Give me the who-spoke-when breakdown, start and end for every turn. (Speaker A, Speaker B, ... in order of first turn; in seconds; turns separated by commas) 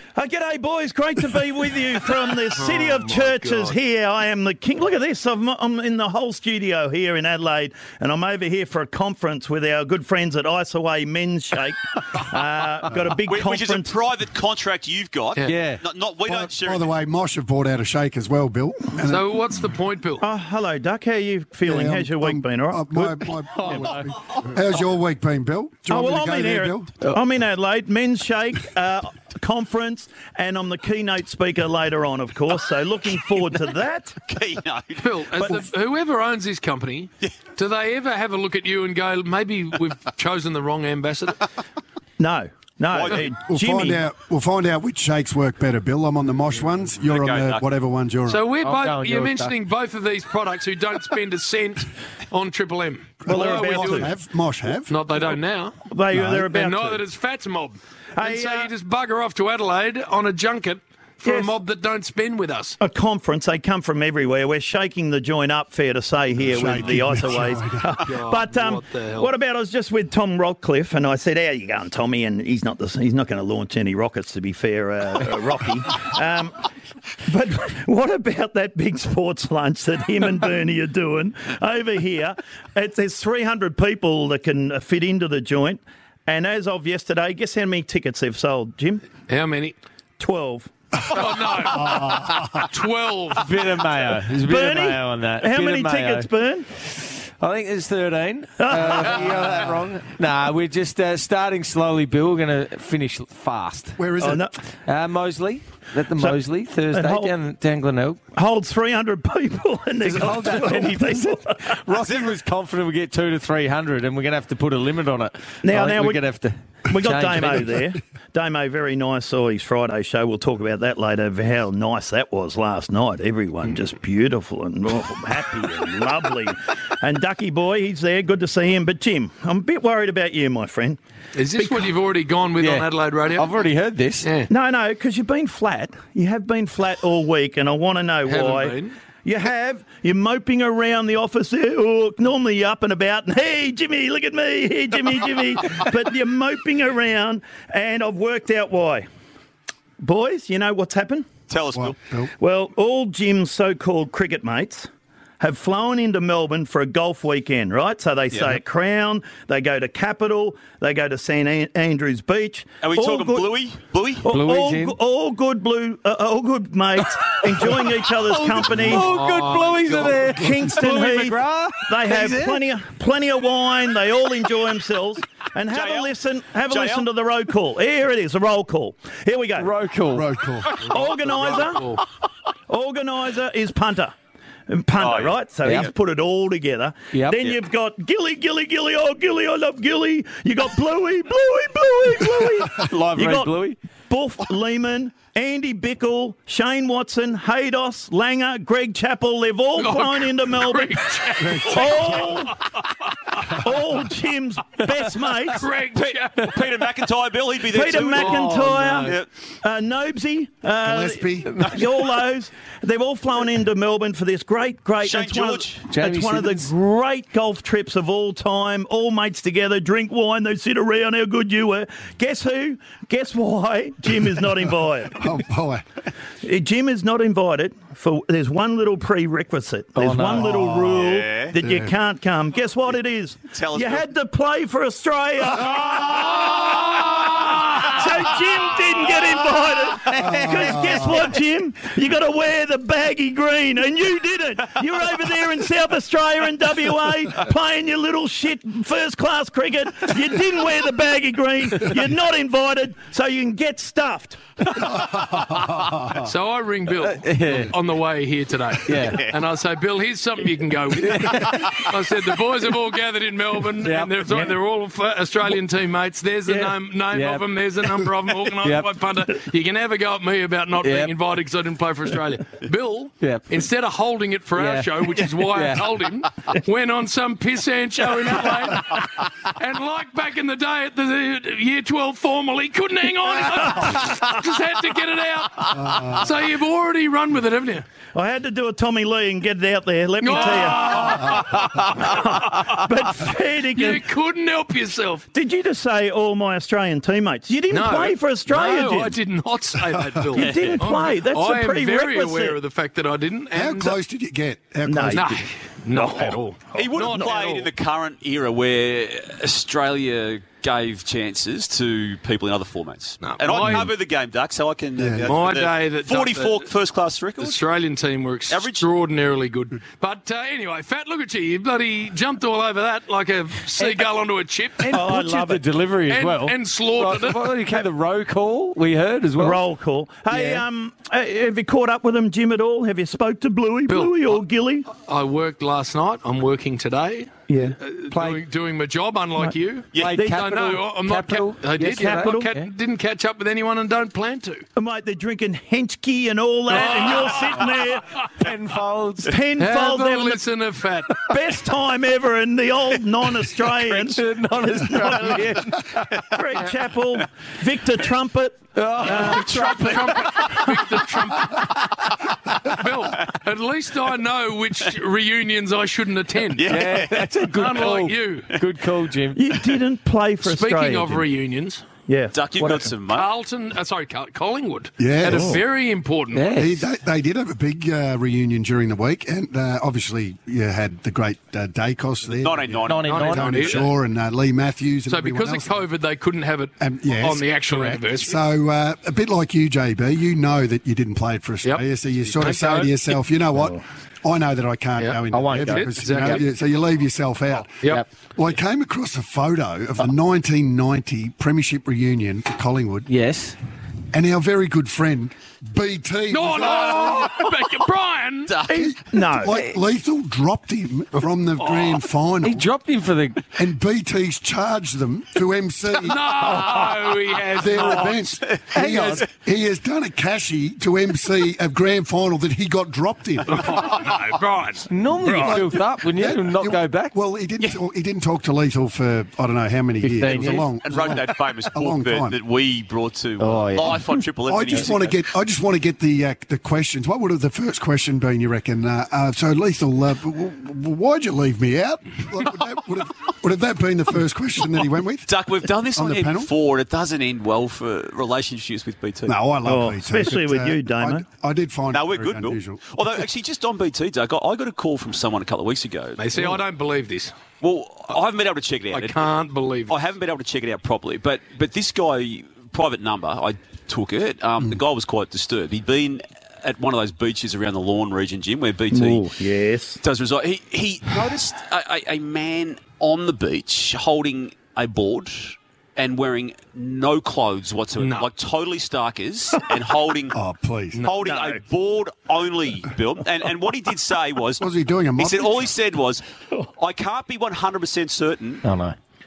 Speaker A: 0.1-13.9, Speaker B: 2.5-3.8, Speaker C: 13.3-16.9, Speaker D: 15.4-15.8, Speaker E: 16.2-19.3, Speaker B: 19.0-20.2, Speaker A: 20.2-23.8, Speaker E: 21.6-26.9, Speaker D: 23.6-24.0, Speaker A: 25.9-34.2, Speaker C: 34.2-35.2, Speaker B: 35.0-41.4, Speaker A: 35.4-35.6, Speaker A: 42.2-44.0, Speaker C: 42.9-43.3, Speaker E: 43.5-48.4, Speaker C: 47.0-47.6, Speaker B: 48.3-54.1, Speaker D: 48.6-49.5, Speaker E: 53.2-55.0, Speaker A: 53.3-54.1, Speaker B: 54.9-55.8, Speaker A: 55.9-57.0, Speaker E: 56.1-56.4, Speaker B: 56.4-62.8, Speaker A: 58.2-58.7, Speaker A: 61.2-61.5, Speaker A: 62.8-76.6, Speaker E: 66.4-68.0, Speaker B: 68.0-69.3, Speaker A: 77.2-89.0, Speaker B: 89.3-89.8, Speaker A: 90.2-90.7, Speaker B: 91.1-93.5, Speaker E: 91.6-92.7, Speaker D: 93.3-96.3, Speaker A: 94.3-96.7, Speaker D: 97.0-104.0, Speaker A: 98.6-99.6, Speaker E: 104.0-104.5, Speaker A: 104.2-104.5, Speaker D: 104.9-108.2, Speaker A: 106.9-107.3, Speaker A: 108.3-111.8, Speaker D: 110.0-117.8, Speaker A: 115.6-116.2, Speaker A: 116.9-131.0, Speaker B: 131.3-133.6, Speaker A: 131.6-131.9, Speaker D: 132.6-134.3, Speaker B: 134.2-134.5, Speaker A: 134.5-149.1, Speaker B: 138.2-138.9, Speaker A: 150.0-151.3, Speaker C: 151.5-151.9, Speaker E: 151.7-152.3, Speaker A: 152.4-154.9, Speaker A: 155.4-163.6, Speaker C: 158.3-158.6, Speaker C: 162.8-164.3, Speaker A: 164.2-169.1, Speaker D: 164.2-165.0, Speaker D: 168.2-172.6, Speaker B: 168.9-170.3, Speaker A: 170.3-179.7, Speaker C: 175.7-176.1, Speaker C: 176.7-177.1, Speaker D: 179.6-180.3, Speaker E: 180.1-180.7, Speaker A: 180.9-181.8, Speaker B: 180.9-182.0, Speaker A: 182.7-184.1, Speaker A: 184.7-202.6, Speaker C: 185.0-185.4, Speaker D: 185.6-185.9, Speaker D: 187.1-187.6, Speaker D: 192.7-193.8, Speaker B: 199.7-202.5, Speaker A: 203.5-205.7, Speaker B: 205.5-206.5, Speaker C: 205.9-209.3, Speaker A: 207.7-225.2, Speaker B: 208.1-209.1, Speaker E: 210.8-211.7, Speaker C: 215.0-215.8, Speaker D: 215.9-216.7, Speaker E: 225.2-225.8, Speaker A: 226.4-254.8, Speaker D: 230.0-230.6, Speaker E: 230.4-231.9, Speaker C: 230.9-231.5, Speaker C: 233.5-234.0, Speaker E: 240.1-241.1, Speaker D: 240.2-241.3, Speaker E: 255.1-256.0, Speaker B: 256.2-287.8, Speaker D: 257.1-257.7, Speaker D: 258.9-259.2, Speaker D: 263.8-264.5, Speaker D: 266.5-267.4, Speaker D: 268.6-268.9, Speaker D: 270.8-271.1, Speaker D: 274.6-275.9, Speaker A: 283.6-284.2, Speaker E: 285.7-286.3, Speaker A: 288.1-294.0, Speaker B: 290.2-292.6, Speaker B: 293.7-295.3, Speaker A: 295.3-299.2, Speaker B: 297.7-304.0, Speaker A: 300.3-302.6, Speaker E: 303.5-305.4, Speaker A: 304.9-307.4, Speaker B: 305.1-307.7, Speaker C: 306.7-317.6, Speaker B: 313.2-313.9, Speaker E: 315.0-315.4, Speaker B: 315.2-316.7, Speaker B: 317.4-325.1, Speaker C: 318.5-318.9, Speaker D: 323.8-324.1, Speaker D: 324.8-329.6, Speaker A: 324.9-325.6, Speaker B: 326.1-327.5, Speaker A: 329.4-334.9, Speaker D: 330.3-330.6, Speaker B: 333.9-334.4, Speaker B: 335.0-344.6, Speaker A: 337.5-337.8, Speaker D: 338.1-338.4, Speaker D: 340.0-342.7, Speaker A: 340.1-340.5, Speaker A: 341.8-342.5, Speaker A: 344.8-348.1, Speaker B: 346.7-347.7, Speaker D: 348.4-349.4, Speaker A: 349.3-350.4, Speaker B: 349.6-351.2, Speaker A: 351.3-354.2, Speaker D: 353.8-356.2, Speaker A: 354.7-359.9, Speaker D: 358.8-360.1, Speaker B: 359.0-361.7, Speaker B: 362.7-367.0, Speaker C: 366.5-367.3, Speaker D: 366.7-369.4, Speaker B: 367.5-368.5, Speaker A: 369.3-371.2, Speaker B: 370.4-371.8, Speaker A: 372.1-372.9, Speaker C: 372.3-373.3, Speaker B: 373.1-376.6, Speaker E: 375.0-375.6, Speaker D: 376.3-376.8, Speaker E: 376.5-385.7, Speaker C: 382.4-383.4, Speaker D: 382.9-383.7, Speaker B: 383.1-383.9, Speaker B: 385.1-388.4, Speaker E: 386.8-403.1, Speaker B: 391.6-393.1, Speaker B: 395.0-396.4, Speaker D: 395.3-396.4, Speaker D: 403.1-403.6, Speaker E: 404.1-407.4, Speaker B: 406.3-408.5, Speaker C: 408.5-408.9, Speaker A: 408.7-409.5, Speaker E: 408.7-412.7, Speaker B: 411.6-412.0, Speaker D: 412.4-413.4, Speaker E: 413.6-416.5, Speaker B: 416.0-418.4, Speaker E: 417.6-423.8, Speaker D: 418.7-419.2, Speaker B: 423.5-424.9, Speaker D: 424.9-427.1, Speaker E: 425.2-432.4, Speaker A: 425.2-425.6, Speaker D: 430.0-430.7, Speaker C: 430.4-435.2, Speaker D: 433.4-434.9, Speaker E: 434.5-445.3, Speaker C: 445.3-449.4, Speaker E: 445.9-446.5, Speaker E: 449.3-452.8, Speaker A: 449.6-451.2, Speaker C: 451.9-456.5, Speaker B: 456.2-457.3, Speaker C: 457.6-459.3, Speaker B: 458.9-459.9, Speaker C: 459.9-469.2, Speaker A: 468.9-470.0, Speaker C: 470.0-480.4, Speaker B: 478.0-478.3, Speaker E: 480.3-481.0, Speaker C: 481.0-484.7, Speaker A: 481.2-481.6, Speaker E: 484.6-485.7, Speaker C: 485.2-486.2, Speaker C: 486.8-488.6, Speaker D: 488.6-488.9